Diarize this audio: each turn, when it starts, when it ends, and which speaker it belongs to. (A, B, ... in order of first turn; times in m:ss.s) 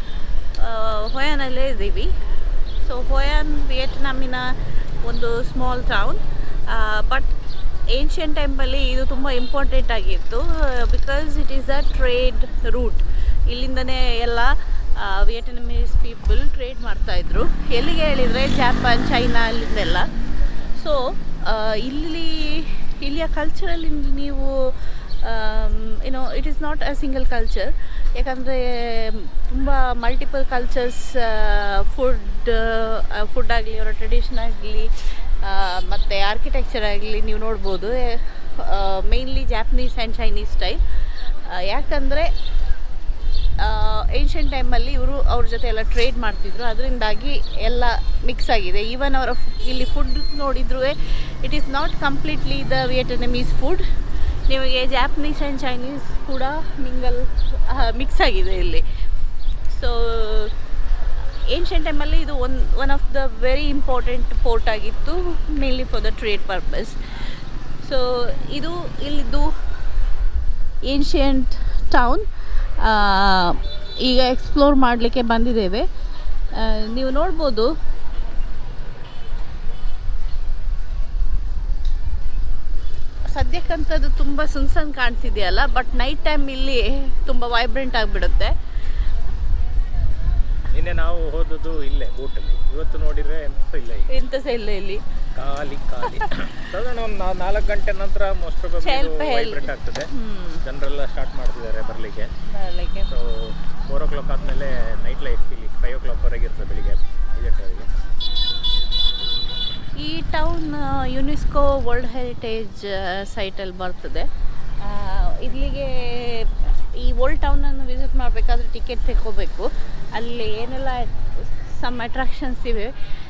0:00.6-0:02.1 A
0:02.8-0:04.5 A
0:05.0-0:07.3 A
0:07.9-0:20.1 A
0:20.8-0:42.3 A
0:43.6-0:53.8 A
0:54.5-0:58.8 A
0:59.7-1:00.5 A
1:01.5-1:07.0 A
1:07.8-1:09.5 A
1:10.8-1:12.2 A
1:12.8-1:15.9 A
1:16.5-1:17.7 A
1:23.3-1:28.5 A
1:30.7-1:34.1 B
1:34.1-1:35.0 A
1:35.3-1:40.1 B
1:38.8-1:40.6 A
1:40.6-1:42.3 B
1:42.5-1:43.1 A
1:43.1-1:47.9 B
1:50.0-1:54.3 A
1:54.8-2:02.9 A